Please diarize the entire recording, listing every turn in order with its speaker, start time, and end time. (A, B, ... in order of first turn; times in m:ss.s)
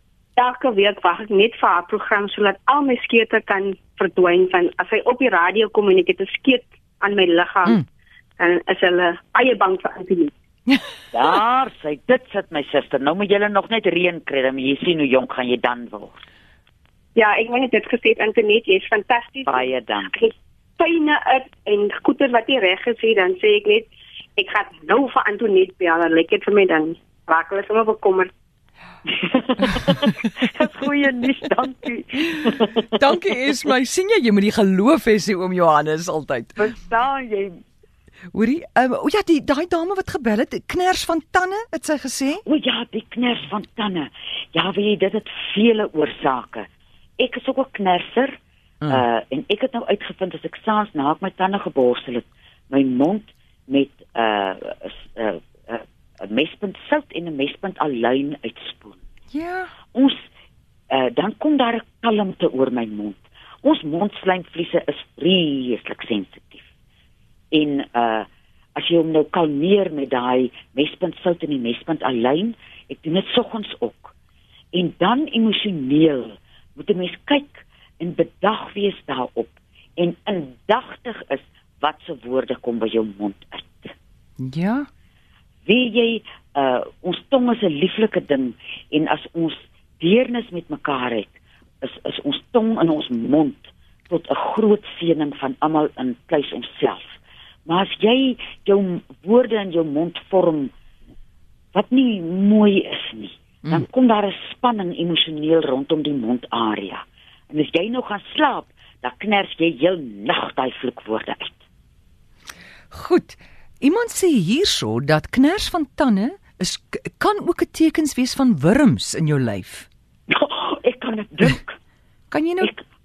0:00.4-0:07.8 A
0:08.4-0:10.3 A
0:11.1-0:16.2 B
0:17.2-0:28.3 A
0:19.5-0:20.1 B
0:29.2-0:33.1 B
0:32.9-0:36.6 C
0:36.6-0:37.6 B
0:38.3-0:42.4 C
0:42.4-0:46.7 B
0:47.2-0:48.3 B
0:48.9-0:59.0 B
0:59.3-0:59.7 C
1:00.9-1:06.6 B
1:07.5-1:14.1 B
1:14.7-1:23.9 B
1:24.4-1:24.9 C
1:25.6-1:40.7 B
1:41.7-1:51.6 B
1:52.9-1:59.9 C
2:00.3-2:01.8 B
2:02.3-2:02.7 C